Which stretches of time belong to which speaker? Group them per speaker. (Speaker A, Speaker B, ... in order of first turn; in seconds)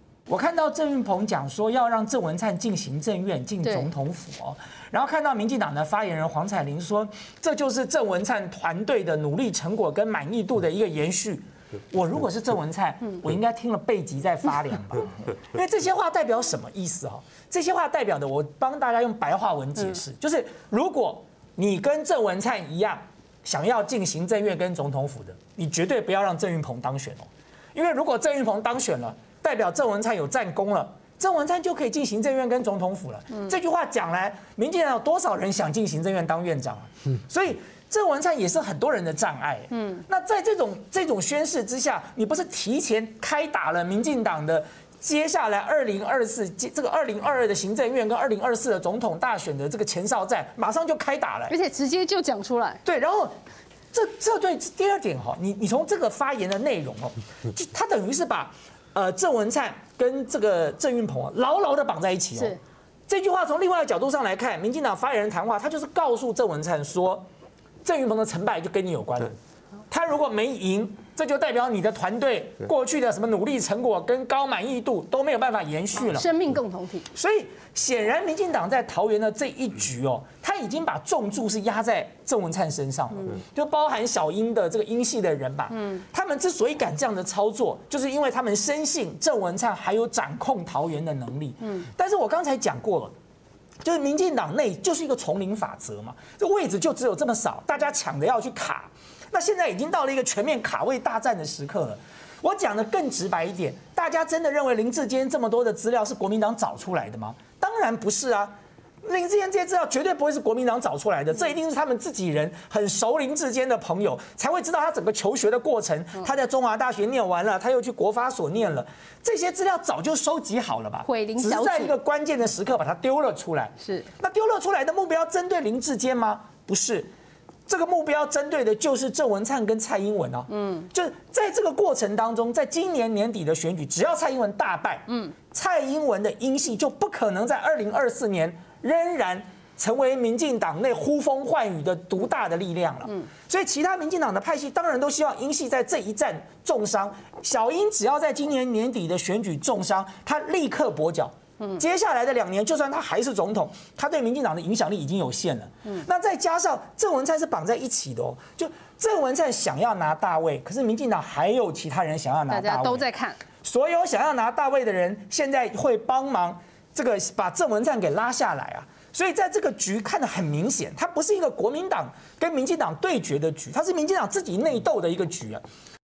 Speaker A: 0.3-51.6, 52.8-53.3, 53.9-67.3, 67.8-69.4, 69.9-76.3, 77.1-93.1, 93.8-127.1, 127.7-163.1, 163.6-175.6
Speaker B: 3.6-3.9, 51.5-52.8, 76.1-77.1, 121.1-121.9, 162.5-163.4